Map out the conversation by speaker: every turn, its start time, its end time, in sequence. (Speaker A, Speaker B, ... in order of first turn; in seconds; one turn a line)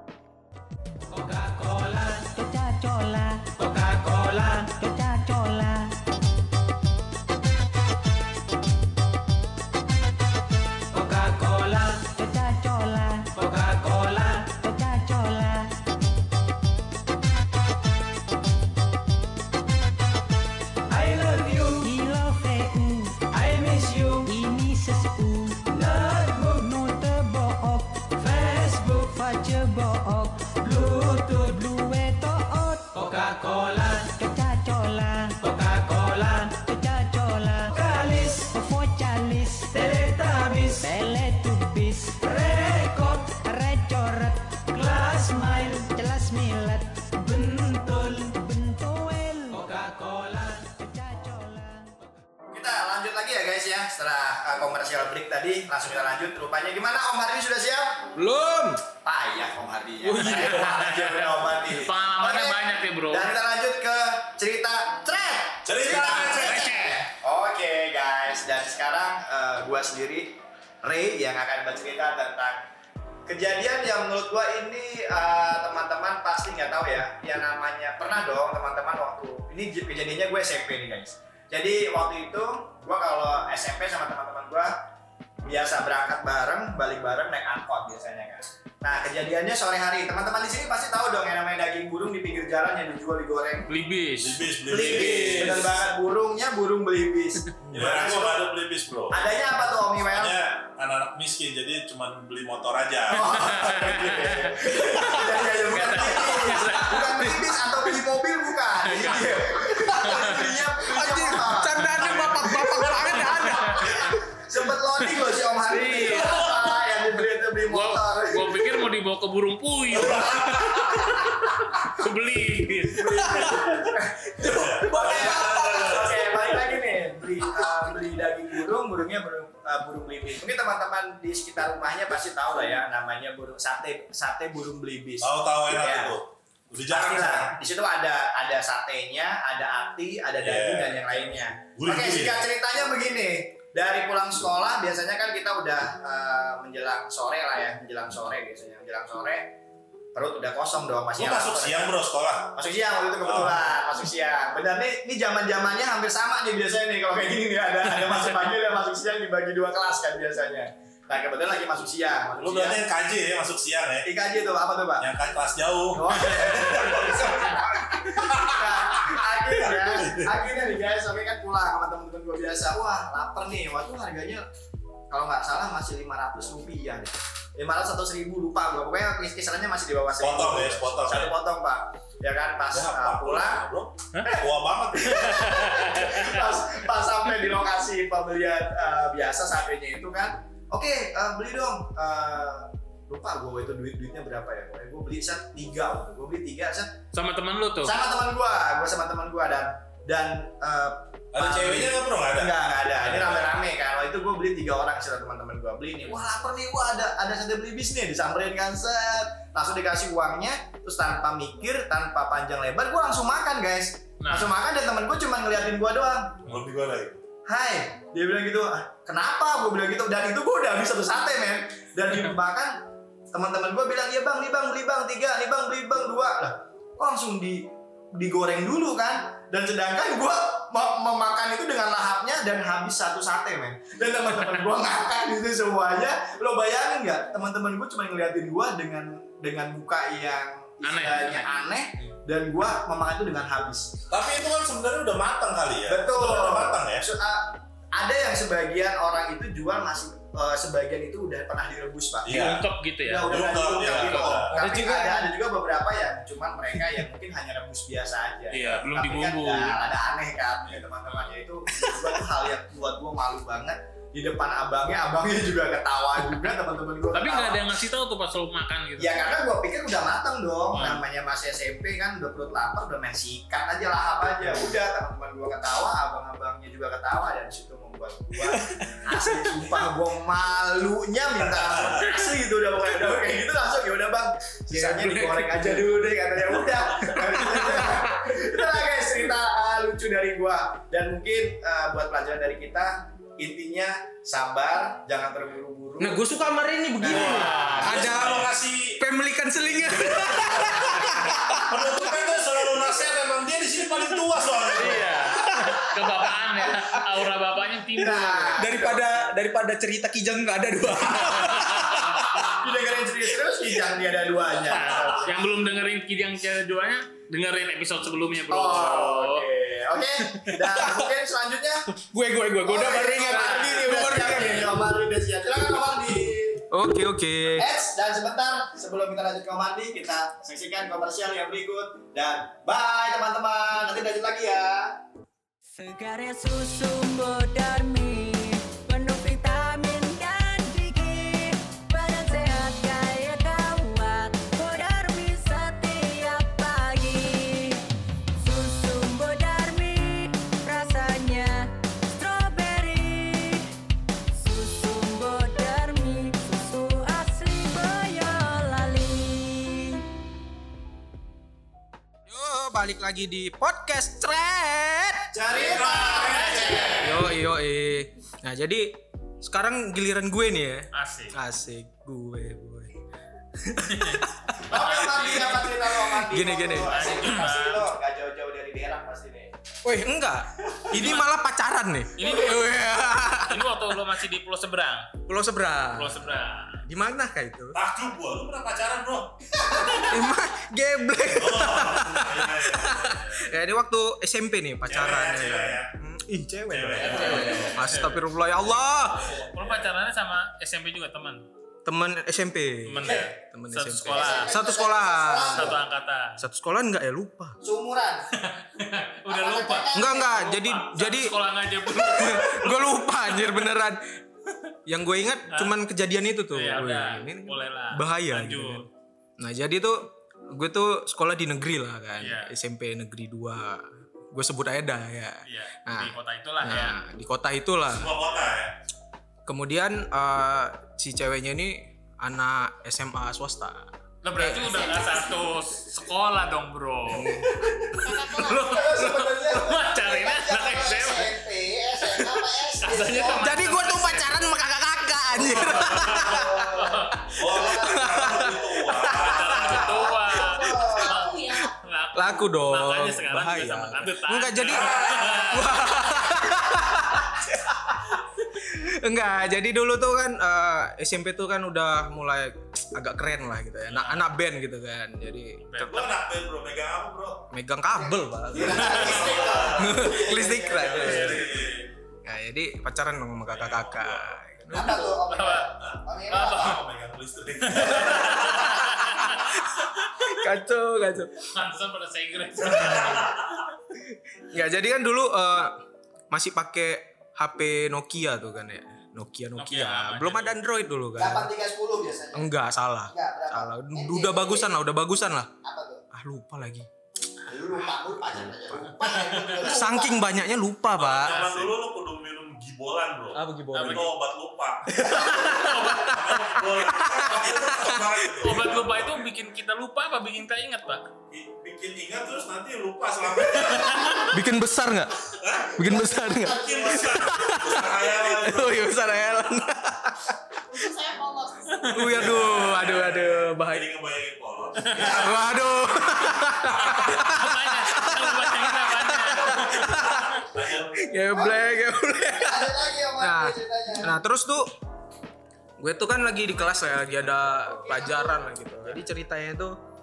Speaker A: 1.1-6.0
Speaker A: 10.9-15.8
Speaker A: 20.9-52.0
Speaker B: 52.5-58.1
Speaker C: 58.2-58.9
Speaker B: 59.0-72.7
Speaker C: 60.0-60.6
Speaker D: 60.1-63.3
Speaker E: 65.7-67.0
Speaker D: 66.4-66.9
Speaker B: 73.3-84.8
Speaker B: 85.4-93.7
Speaker D: 93.7-94.4
Speaker E: 94.2-95.8
Speaker B: 94.7-98.5
Speaker C: 97.6-98.0
Speaker E: 97.7-99.2
Speaker B: 99.1-100.4
Speaker E: 100.1-104.2
Speaker B: 103.1-118.8
Speaker D: 103.3-107.4
Speaker D: 108.8-109.4
Speaker C: 109.9-114.1
Speaker D: 109.9-110.5
Speaker D: 113.2-114.0
Speaker D: 115.9-116.5
Speaker D: 117.7-123.5
Speaker E: 119.9-121.1
Speaker B: 123.0-136.2
Speaker C: 123.2-123.8
Speaker C: 124.4-126.5
Speaker E: 124.4-126.3
Speaker E: 135.2-137.6
Speaker B: 136.9-149.6
Speaker E: 140.4-142.5
Speaker B: 150.2-152.0
Speaker E: 151.2-152.5
Speaker B: 152.6-162.8
Speaker E: 153.2-153.7
Speaker E: 162.4-164.1
Speaker B: 164.1-165.1
Speaker E: 165.0-167.6
Speaker B: 165.9-174.5
Speaker E: 168.1-169.2
Speaker E: 169.8-170.3
Speaker B: 175.1-183.7
Speaker E: 180.2-181.3
Speaker E: 182.7-185.4
Speaker B: 184.9-197.0
Speaker D: 185.2-186.5
Speaker D: 197.1-197.9
Speaker B: 197.8-216.4
Speaker E: 201.3-203.6
Speaker D: 214.2-214.5
Speaker E: 216.5-217.2
Speaker B: 217.5-244.0
Speaker D: 240.8-241.5
Speaker E: 244.1-247.1
Speaker B: 245.9-267.7
Speaker E: 252.2-252.7
Speaker D: 252.3-254.4
Speaker E: 253.2-254.6
Speaker C: 254.5-255.3
Speaker D: 258.5-259.8
Speaker D: 267.1-269.3
Speaker B: 269.0-296.3
Speaker D: 270.7-271.1
Speaker C: 278.5-279.5
Speaker E: 281.5-282.1
Speaker C: 284.7-286.0
Speaker C: 287.0-288.3
Speaker C: 296.0-302.0
Speaker B: 297.0-297.9
Speaker E: 297.1-299.0
Speaker D: 297.1-298.2
Speaker E: 299.9-305.3
Speaker B: 302.1-303.2
Speaker D: 304.7-308.7
Speaker C: 305.4-305.8
Speaker B: 307.9-309.0
Speaker C: 308.6-312.2
Speaker D: 311.4-312.2
Speaker B: 312.4-315.6
Speaker D: 314.6-319.5
Speaker B: 318.5-321.9
Speaker C: 320.7-321.1
Speaker C: 322.1-324.8
Speaker B: 322.6-326.6
Speaker D: 323.2-324.6
Speaker C: 326.7-327.7
Speaker B: 327.5-335.0
Speaker A: 335.7-347.8
Speaker A: 348.4-353.7
Speaker A: 354.3-360.0
Speaker C: 362.3-365.3
Speaker B: 365.3-367.2
Speaker E: 365.5-367.1
Speaker D: 366.2-367.0
Speaker C: 367.0-372.9
Speaker D: 370.9-371.4
Speaker C: 373.6-374.7
Speaker D: 373.9-375.7
Speaker B: 374.7-379.5
Speaker C: 375.7-377.3
Speaker D: 376.9-377.9
Speaker C: 379.8-383.8
Speaker D: 380.9-381.3
Speaker D: 382.2-382.9
Speaker D: 383.4-385.1
Speaker C: 385.3-387.8
Speaker D: 385.9-386.8
Speaker E: 387.7-389.4
Speaker B: 389.7-390.1
Speaker C: 389.7-399.4
Speaker E: 391.4-393.4
Speaker E: 394.9-395.9
Speaker E: 396.7-398.1
Speaker D: 397.1-398.2
Speaker E: 399.2-399.8
Speaker D: 399.5-401.4
Speaker C: 401.9-405.8
Speaker D: 402.9-404.6
Speaker B: 403.0-403.4
Speaker B: 404.1-405.8
Speaker D: 405.5-406.4
Speaker C: 406.4-407.6
Speaker B: 407.6-408.3
Speaker D: 408.4-413.6
Speaker B: 409.3-410.6
Speaker C: 409.9-414.0
Speaker C: 414.9-418.9
Speaker D: 415.5-415.8
Speaker D: 416.5-418.9
Speaker C: 419.4-428.1
Speaker D: 422.2-422.5
Speaker D: 425.5-427.0
Speaker E: 427.9-428.7
Speaker C: 429.5-435.0
Speaker D: 434.2-437.4
Speaker C: 437.1-438.0
Speaker B: 437.6-443.6
Speaker F: 438.0-438.8
Speaker D: 438.2-441.4
Speaker D: 442.1-444.5
Speaker C: 443.3-446.8
Speaker D: 445.4-447.3
Speaker B: 445.7-448.6
Speaker E: 447.4-450.2
Speaker C: 447.7-449.4
Speaker D: 449.1-456.0
Speaker B: 449.4-451.4
Speaker F: 450.4-451.7
Speaker C: 452.1-465.7
Speaker E: 454.7-455.8
Speaker D: 463.9-464.3
Speaker D: 465.6-466.1
Speaker E: 465.8-467.5
Speaker C: 467.5-471.5
Speaker B: 468.0-471.6
Speaker E: 468.7-470.1
Speaker E: 470.7-471.9
Speaker D: 471.0-471.4
Speaker C: 472.2-475.0
Speaker E: 473.5-474.4
Speaker B: 474.7-476.8
Speaker D: 474.7-475.7
Speaker D: 476.3-476.8
Speaker E: 476.5-478.9
Speaker D: 477.6-480.3
Speaker B: 478.0-478.5
Speaker C: 480.2-481.5
Speaker D: 481.5-483.5
Speaker E: 482.6-483.6
Speaker C: 484.1-485.8
Speaker C: 486.3-491.5
Speaker D: 489.6-490.6
Speaker B: 491.2-492.6
Speaker C: 492.3-495.5
Speaker B: 493.1-494.8
Speaker B: 495.6-496.0
Speaker C: 496.1-496.9
Speaker B: 497.4-500.3
Speaker D: 499.2-499.6
Speaker C: 499.6-501.5
Speaker E: 500.9-505.1
Speaker D: 501.3-501.6
Speaker C: 503.3-504.1
Speaker D: 503.7-504.1
Speaker C: 504.9-508.4
Speaker D: 505.0-506.2
Speaker E: 506.1-509.2
Speaker D: 508.4-511.1
Speaker E: 511.3-514.2
Speaker D: 513.7-514.3
Speaker C: 514.3-520.4
Speaker E: 515.4-515.9
Speaker B: 515.8-517.5
Speaker E: 516.5-519.0
Speaker F: 520.7-522.0
Speaker D: 521.8-522.2
Speaker C: 521.9-523.9
Speaker E: 522.1-525.9
Speaker D: 524.8-525.2
Speaker C: 525.0-530.4
Speaker D: 526.8-530.2
Speaker E: 526.9-527.3
Speaker E: 529.4-531.1
Speaker C: 531.0-534.7
Speaker B: 531.3-531.8
Speaker B: 532.4-534.1
Speaker C: 535.8-539.8
Speaker B: 537.5-538.3